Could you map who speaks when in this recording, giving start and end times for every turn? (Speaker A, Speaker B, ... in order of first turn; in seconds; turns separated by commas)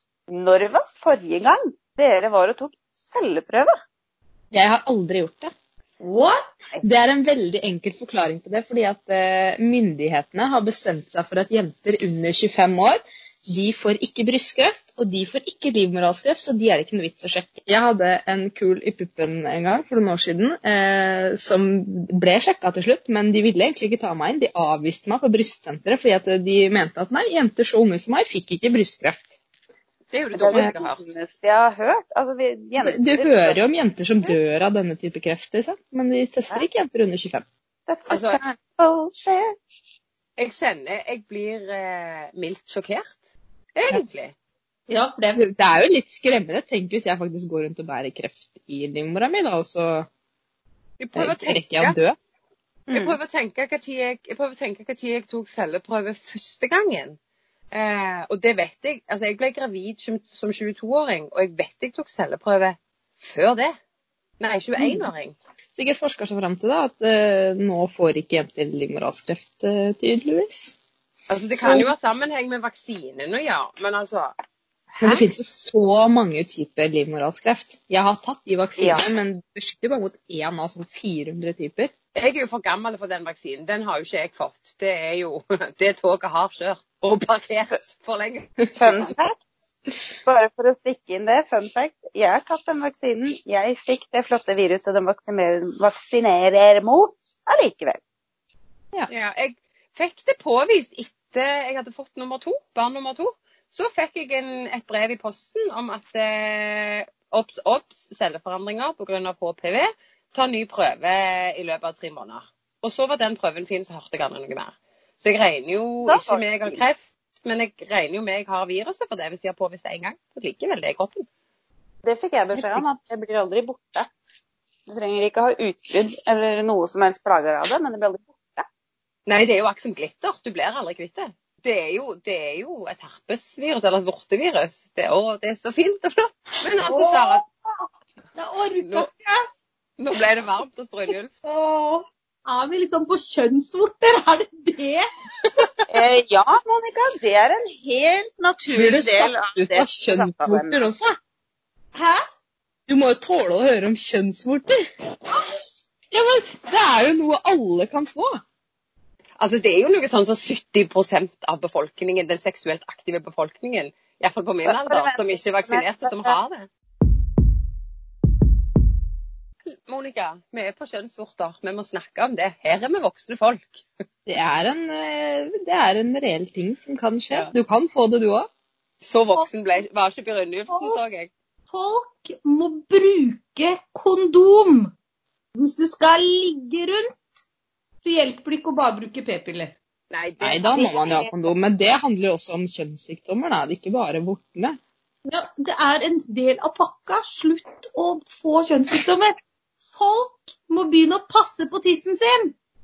Speaker A: 0.3-3.7, Speaker B: 4.5-5.5, Speaker C: 6.0-6.5, Speaker B: 6.8-29.3, Speaker D: 30.1-31.1, Speaker A: 30.4-33.6, Speaker B: 32.8-37.4, Speaker A: 37.9-39.5, Speaker D: 38.1-38.4, Speaker D: 40.4-43.2, Speaker D: 43.7-44.3, Speaker C: 44.9-45.5, Speaker B: 45.3-50.1, Speaker D: 51.0-52.0, Speaker B: 51.1-52.1, Speaker A: 52.9-53.2, Speaker D: 52.9-57.2, Speaker D: 57.7-63.7, Speaker D: 64.4-65.3, Speaker B: 64.8-65.1, Speaker B: 65.8-70.7, Speaker D: 71.3-74.3, Speaker B: 71.5-71.9, Speaker D: 75.0-75.2, Speaker B: 75.0-81.9, Speaker A: 78.8-79.1, Speaker D: 82.1-89.1, Speaker A: 88.8-89.3, Speaker A: 90.2-98.0, Speaker D: 99.1-121.2, Speaker A: 116.1-116.8, Speaker A: 122.0-124.1, Speaker A: 124.9-128.7, Speaker D: 129.2-137.4, Speaker C: 136.8-139.4, Speaker D: 138.8-139.1, Speaker D: 140.0-141.3, Speaker C: 141.4-145.1, Speaker A: 145.9-150.9, Speaker B: 148.7-151.1, Speaker C: 151.9-152.2, Speaker B: 152.9-154.8, Speaker C: 155.3-155.7, Speaker B: 156.1-158.4, Speaker D: 159.4-166.7, Speaker A: 164.6-166.4, Speaker D: 169.9-173.9, Speaker B: 174.3-178.5, Speaker D: 179.0-181.3, Speaker C: 180.7-181.0, Speaker C: 181.7-184.9, Speaker C: 185.6-187.1, Speaker C: 188.0-189.8, Speaker D: 190.1-191.1, Speaker B: 190.4-194.8, Speaker A: 190.7-191.5, Speaker C: 195.3-199.3, Speaker C: 199.9-202.5